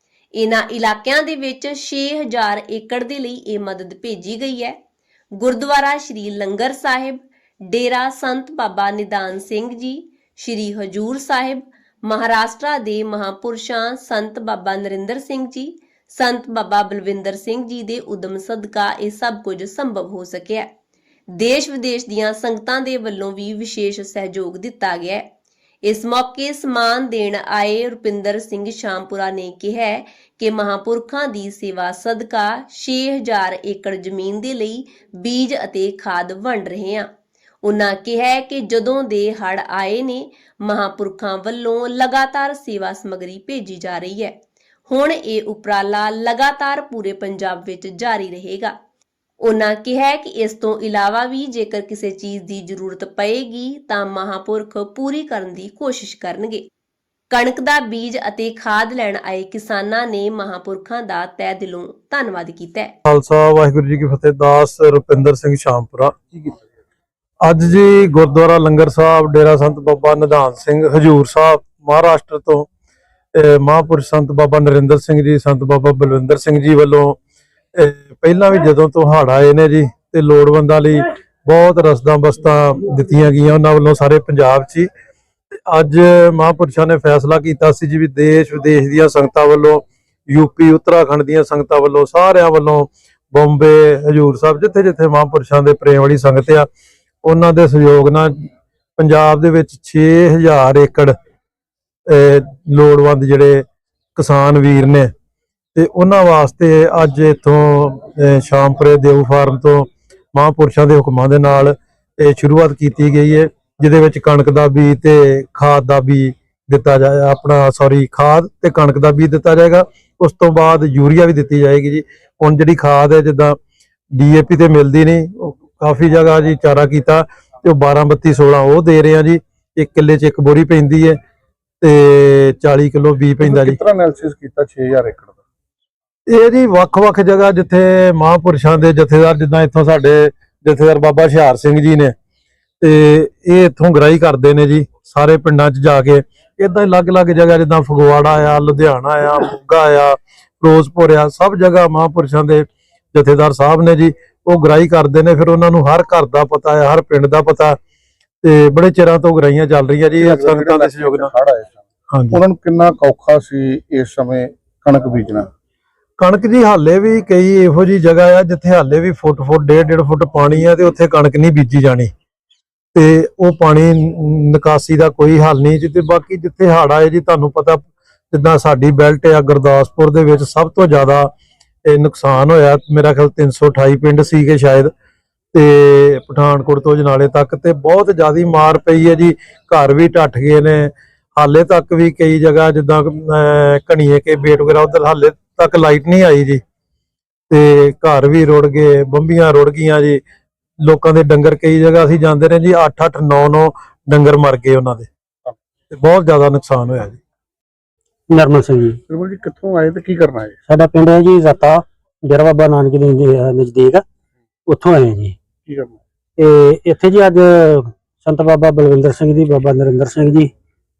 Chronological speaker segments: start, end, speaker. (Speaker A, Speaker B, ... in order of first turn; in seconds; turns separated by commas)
Speaker A: 0.3-4.8, Speaker A: 5.3-20.7, Speaker A: 21.3-25.2, Speaker A: 25.8-37.1, Speaker A: 37.6-44.4, Speaker A: 44.9-48.7, Speaker A: 49.4-56.6, Speaker A: 57.3-62.9, Speaker B: 63.0-66.3, Speaker B: 67.4-72.7, Speaker B: 73.3-77.2, Speaker B: 77.8-84.9, Speaker B: 85.7-96.7, Speaker B: 97.2-98.4, Speaker B: 99.0-101.1, Speaker B: 102.1-103.6, Speaker B: 104.2-105.1, Speaker B: 105.7-123.5, Speaker B: 124.2-131.2, Speaker B: 131.8-133.8, Speaker C: 133.4-135.3, Speaker B: 136.3-142.1, Speaker B: 142.8-157.8, Speaker B: 158.4-161.3, Speaker C: 160.2-161.8, Speaker B: 162.1-162.4, Speaker C: 162.3-165.5, Speaker B: 166.2-172.1, Speaker B: 172.9-181.3, Speaker B: 181.8-184.9, Speaker B: 185.5-196.6, Speaker B: 197.5-200.2, Speaker B: 200.8-205.1, Speaker B: 205.9-207.2, Speaker D: 208.3-209.0, Speaker C: 209.1-210.6, Speaker D: 210.7-214.0, Speaker D: 214.7-215.3, Speaker C: 215.7-216.0, Speaker D: 216.4-220.5